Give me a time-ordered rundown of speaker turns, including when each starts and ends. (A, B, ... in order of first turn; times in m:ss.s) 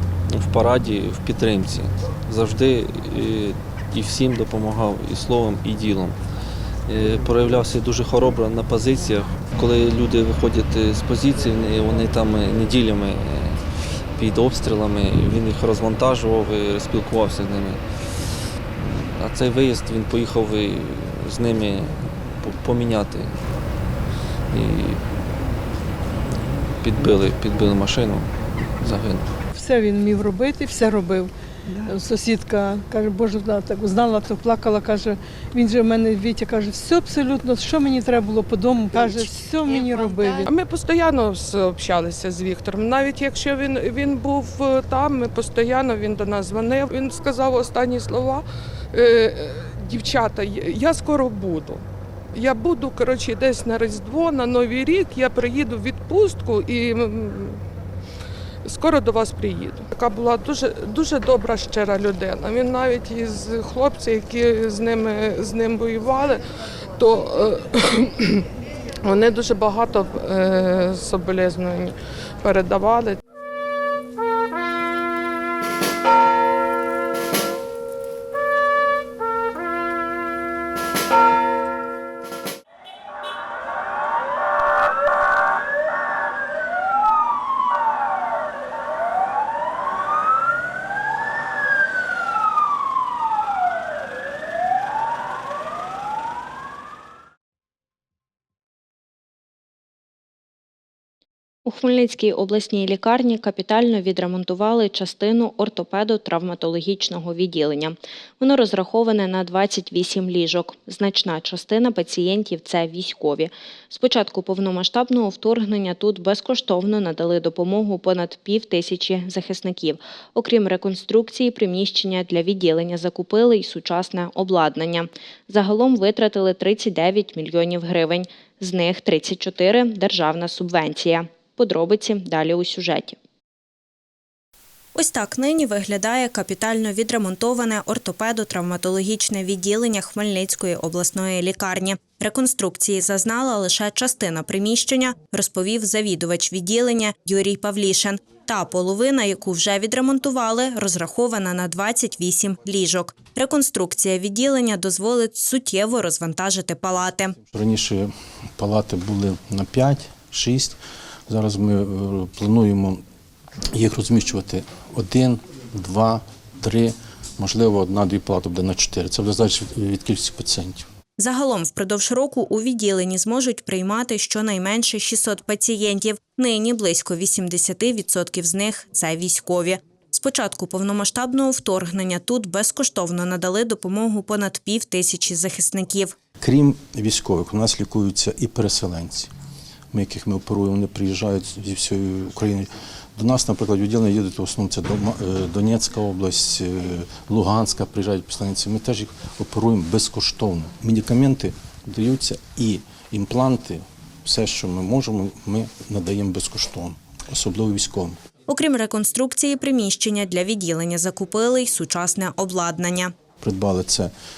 0:00.3-0:06.2 A
0:06.9-0:23.4 A
0:24.5-0:25.2 A
0:26.8-0:29.3 A
0:29.6-0:40.4 B
0:40.4-0:57.6 C
0:58.6-1:06.4 C
1:07.0-1:08.4 C
1:09.0-1:13.2 C
1:41.6-2:13.2 D
2:15.0-2:37.4 D
2:37.5-2:43.0 E
2:43.7-2:50.9 E
2:51.2-3:06.2 D
3:06.4-3:09.3 E
3:09.9-3:28.2 E
3:28.5-3:33.1 D
3:33.4-3:34.1 E